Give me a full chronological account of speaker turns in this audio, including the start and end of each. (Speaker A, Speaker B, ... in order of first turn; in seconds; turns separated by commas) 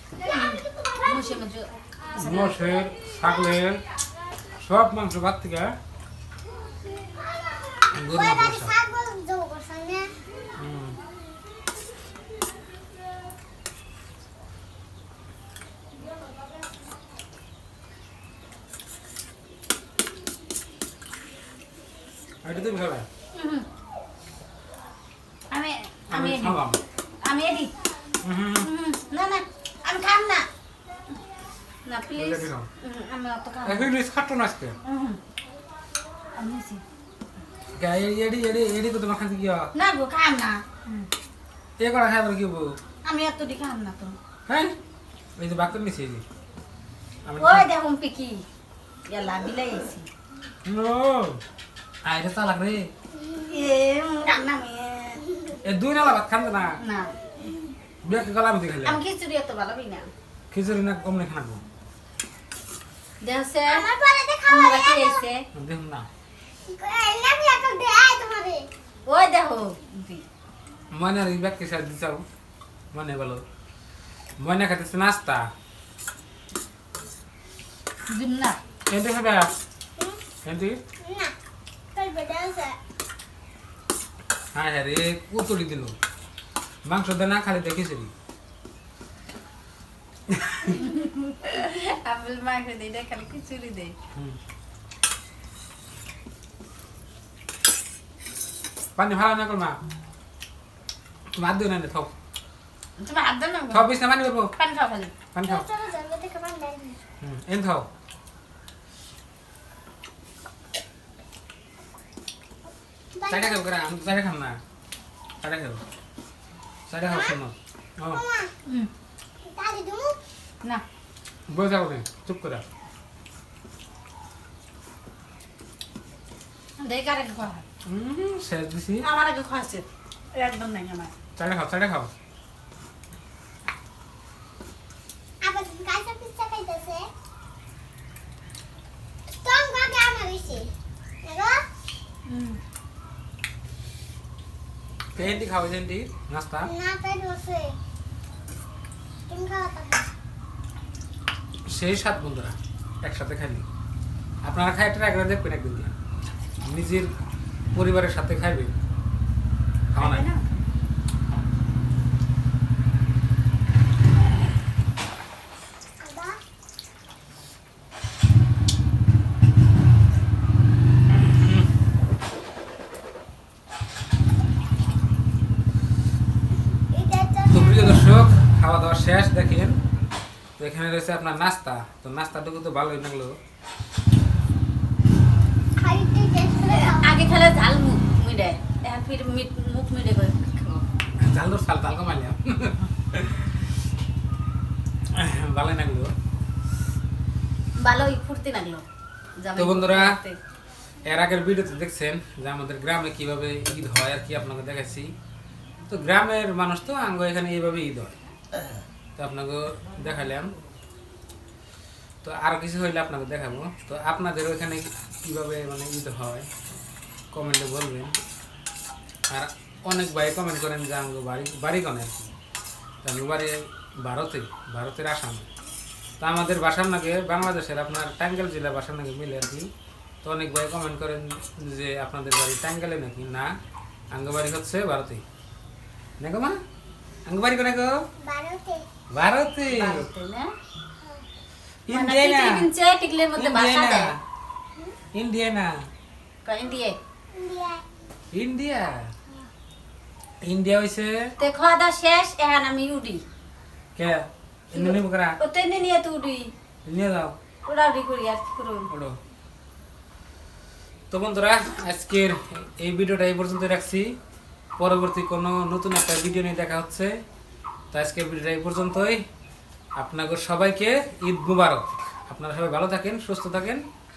Speaker A: 0.2-2.6, Speaker B: 0.4-1.2, Speaker C: 2.1-3.8, Speaker C: 4.5-5.8, Speaker B: 7.1-10.1, Speaker C: 7.9-8.7, Speaker C: 10.6-11.0, Speaker C: 22.4-23.1, Speaker A: 23.3-23.6, Speaker A: 25.5-26.6, Speaker C: 26.1-26.8, Speaker A: 27.2-27.7, Speaker C: 28.2-28.7, Speaker A: 28.6-30.5, Speaker A: 31.8-33.9, Speaker C: 32.1-32.7, Speaker C: 33.6-34.8, Speaker A: 34.8-35.2, Speaker A: 36.4-36.8, Speaker C: 37.7-39.7, Speaker A: 39.7-41.1, Speaker C: 41.8-42.8, Speaker A: 43.0-44.2, Speaker C: 44.5-44.7, Speaker C: 45.4-46.2, Speaker C: 47.2-47.7, Speaker A: 47.4-48.4, Speaker A: 49.1-50.1, Speaker C: 50.6-51.4, Speaker C: 52.0-52.9, Speaker A: 53.3-55.2, Speaker C: 55.6-56.8, Speaker A: 56.8-57.1, Speaker C: 58.0-59.0, Speaker A: 58.8-60.1, Speaker C: 60.5-61.6, Speaker A: 63.2-63.8, Speaker B: 63.7-65.2, Speaker A: 64.5-65.4, Speaker C: 65.5-66.1, Speaker B: 66.7-68.6, Speaker A: 69.0-70.2, Speaker C: 70.9-72.2, Speaker C: 72.9-73.4, Speaker C: 74.4-75.5, Speaker A: 78.1-78.6, Speaker C: 78.9-79.5, Speaker C: 80.4-80.8, Speaker B: 81.0-81.3, Speaker B: 81.9-82.8, Speaker C: 84.5-85.9, Speaker C: 86.8-88.1, Speaker C: 90.3-90.7, Speaker A: 90.7-93.9, Speaker C: 99.0-99.8, Speaker C: 101.4-102.1, Speaker A: 103.0-103.9, Speaker C: 103.7-104.5, Speaker A: 104.5-105.1, Speaker C: 105.3-105.6, Speaker B: 105.4-107.0, Speaker C: 107.2-107.9, Speaker B: 113.1-113.6, Speaker C: 113.3-114.6, Speaker C: 115.4-115.8, Speaker C: 116.9-118.2, Speaker B: 117.0-117.4, Speaker B: 118.1-118.5, Speaker B: 119.4-120.2, Speaker C: 121.5-122.6, Speaker A: 126.8-127.6, Speaker C: 127.8-129.1, Speaker A: 129.0-131.1, Speaker C: 131.4-132.1, Speaker B: 135.4-137.1, Speaker B: 139.4-140.7, Speaker B: 141.2-141.6, Speaker A: 142.3-142.6, Speaker C: 145.1-146.7, Speaker B: 146.6-147.8, Speaker B: 149.3-150.1, Speaker C: 151.7-153.6, Speaker C: 154.4-155.9, Speaker C: 156.7-157.1, Speaker C: 157.7-158.7, Speaker C: 159.9-160.2, Speaker A: 159.9-160.4, Speaker B: 166.0-166.4, Speaker B: 176.9-178.1, Speaker C: 177.5-179.7, Speaker C: 180.6-183.3, Speaker B: 185.8-187.2, Speaker A: 186.7-190.8, Speaker C: 191.2-193.7, Speaker C: 195.1-196.1, Speaker A: 197.8-198.8, Speaker A: 199.4-200.4, Speaker C: 199.5-200.1, Speaker C: 201.0-205.1, Speaker C: 205.9-208.2, Speaker C: 209.2-210.5, Speaker C: 212.2-216.5, Speaker C: 217.3-218.1, Speaker C: 219.3-222.3, Speaker C: 223.0-225.5, Speaker C: 226.2-229.7, Speaker C: 230.2-233.5, Speaker C: 234.1-235.2, Speaker C: 236.2-236.6, Speaker C: 237.2-238.1, Speaker B: 238.2-238.8, Speaker C: 239.1-240.1, Speaker A: 239.7-240.5, Speaker C: 241.9-242.7, Speaker A: 241.9-244.1, Speaker C: 243.3-244.2, Speaker C: 245.1-245.9, Speaker A: 246.4-247.0, Speaker B: 247.3-247.8, Speaker C: 248.3-249.1, Speaker C: 250.4-251.3, Speaker A: 251.4-253.2, Speaker C: 253.9-255.4, Speaker A: 254.7-256.5, Speaker C: 256.9-257.3, Speaker A: 257.7-258.9, Speaker C: 258.9-259.2, Speaker C: 261.1-264.2, Speaker C: 264.8-267.1, Speaker C: 267.9-269.2, Speaker C: 270.0-273.8